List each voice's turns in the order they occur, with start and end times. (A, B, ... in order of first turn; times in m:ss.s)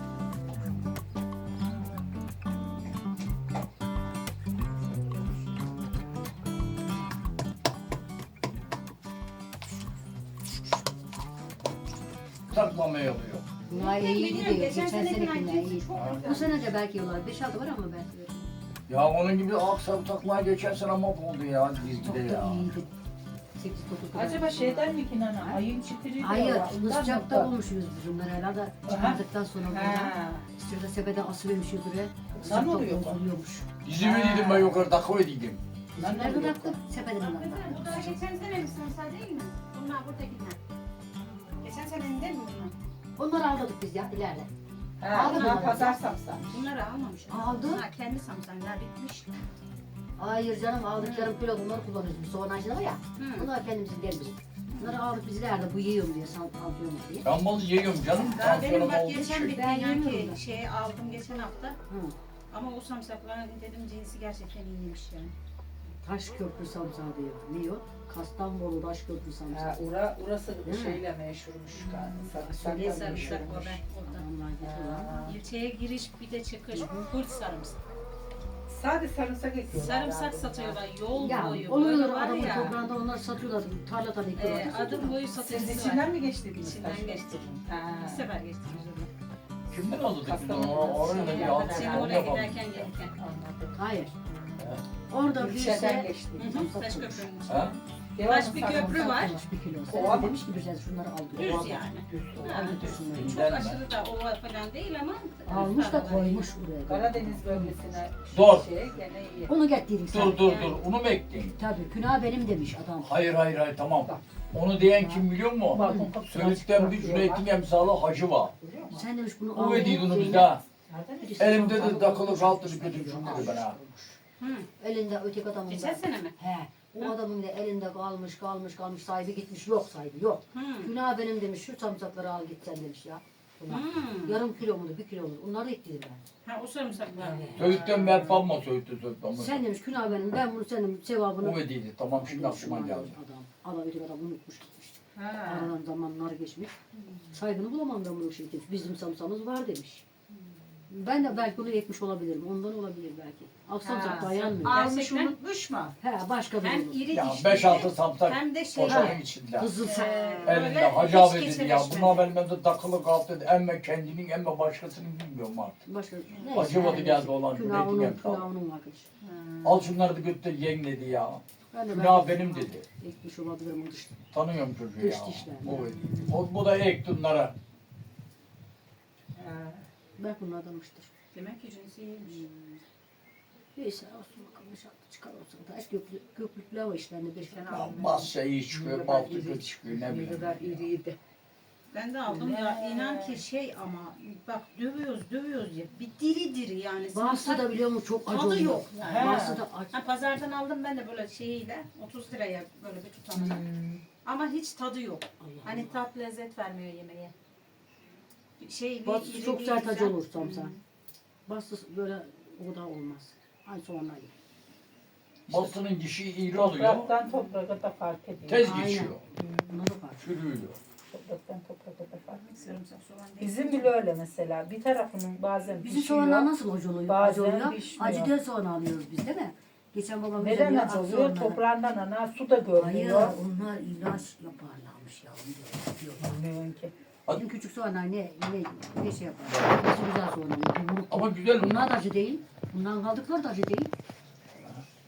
0:12.5-0:13.5 A
0:13.7-0:18.5 B
0:13.7-0:16.5 C
0:16.0-0:16.2 A
0:16.2-0:16.5 D
0:18.9-0:22.7 A
0:22.0-0:22.9 B
0:23.6-0:25.6 B
0:24.1-0:27.5 D
0:26.2-0:33.7 B
0:28.9-0:29.2 D
0:29.8-0:30.1 D
0:29.9-0:30.4 C
0:32.4-0:33.2 D
0:33.8-0:35.6 A
0:34.0-0:34.8 D
0:36.0-0:38.2 B
0:36.0-0:36.8 D
0:37.2-0:40.6 C
0:41.6-0:42.7 C
0:43.2-0:44.5 B
0:45.0-0:46.6 D
0:45.1-0:46.0 B
0:45.1-0:45.7 C
0:46.5-0:49.4 C
0:47.3-0:47.8 B
0:50.2-0:57.3 B
0:51.0-0:51.3 C
0:53.2-0:53.5 C
0:54.7-0:55.0 C
0:57.2-0:59.6 A
0:58.1-0:58.4 B
0:58.2-1:01.8 C
0:59.5-1:00.4 B
1:01.9-1:02.2 B
1:02.5-1:05.3 C
1:06.0-1:09.9 B
1:09.5-1:13.8 D
1:10.6-1:11.0 B
1:11.8-1:15.2 B
1:12.6-1:14.2 C
1:14.6-1:15.4 D
1:15.2-1:17.8 C
1:16.7-1:17.1 B
1:18.7-1:20.8 D
1:19.7-1:22.8 C
1:21.2-1:25.2 B
1:24.4-1:29.1 C
1:25.4-1:28.3 D
1:29.7-1:32.9 A
1:30.2-1:32.3 D
1:31.1-1:33.2 C
1:33.2-1:34.7 D
1:33.7-1:34.2 B
1:35.1-1:37.3 B
1:35.3-1:36.7 D
1:36.4-1:39.4 C
1:37.5-1:37.8 A
1:38.2-1:39.4 D
1:38.7-1:41.8 B
1:39.9-1:40.4 D
1:41.4-1:46.5 C
1:41.4-1:42.6 D
1:42.4-1:43.5 B
1:43.0-1:43.8 A
1:45.5-1:47.8 B
1:46.9-1:49.5 D
1:48.3-1:48.7 A
1:49.5-1:50.6 B
1:50.1-1:51.6 A
1:50.2-1:50.8 C
1:51.6-1:53.1 B
1:53.0-1:58.5 A
1:54.9-1:56.1 B
1:55.7-1:57.5 D
1:58.5-1:59.0 D
1:58.9-2:00.6 B
1:59.5-2:00.6 A
2:00.9-2:01.5 D
2:01.2-2:04.2 B
2:01.4-2:03.8 A
2:04.4-2:04.7 C
2:04.8-2:16.2 B
2:05.7-2:06.4 C
2:10.5-2:10.9 C
2:13.7-2:14.4 C
2:16.4-2:18.4 C
2:17.2-2:17.8 B
2:17.6-2:19.6 A
2:19.3-2:21.6 B
2:21.4-2:23.2 A
2:22.1-2:26.7 B
2:25.2-2:25.7 C
2:26.9-2:27.4 C
2:27.3-2:30.0 B
2:30.9-2:35.4 B
2:33.8-2:36.0 C
2:36.0-2:37.0 B
2:36.6-2:39.2 C
2:37.1-2:39.7 A
2:38.9-2:40.6 B
2:39.8-2:42.3 C
2:40.4-2:45.8 A
2:45.8-2:49.1 B
2:46.4-2:46.7 C
2:46.5-2:48.5 A
2:49.2-2:49.8 C
2:49.6-2:52.9 A
2:51.7-2:54.2 B
2:54.3-2:57.5 A
2:55.0-2:55.9 B
2:55.8-2:56.3 C
2:59.4-2:59.7 D
3:00.2-3:01.1 B
3:01.3-3:02.4 C
3:02.2-3:02.8 B
3:03.8-3:08.0 B
3:07.5-3:11.2 D
3:07.7-3:10.9 A
3:11.9-3:17.7 C
3:12.3-3:13.4 D
3:17.1-3:20.0 B
3:18.3-3:23.6 C
3:19.0-3:19.6 D
3:23.3-3:24.0 D
3:24.2-3:27.3 C
3:25.4-3:25.9 B
3:28.6-3:30.8 C
3:29.0-3:30.7 B
3:31.5-3:34.3 B
3:35.5-3:37.1 A
3:36.6-3:38.7 D
3:37.2-3:37.6 C
3:38.5-3:39.2 A
3:38.6-3:40.2 B
3:39.4-3:39.8 D
3:40.2-3:40.8 A
3:41.1-3:42.8 D
3:42.3-3:43.9 C
3:43.4-3:46.5 D
3:45.8-3:51.6 B
3:47.1-3:48.3 D
3:50.4-3:53.4 D
3:52.8-3:56.4 B
3:56.2-3:57.0 D
3:57.3-4:03.9 B
3:59.5-3:59.8 A
4:01.1-4:01.9 A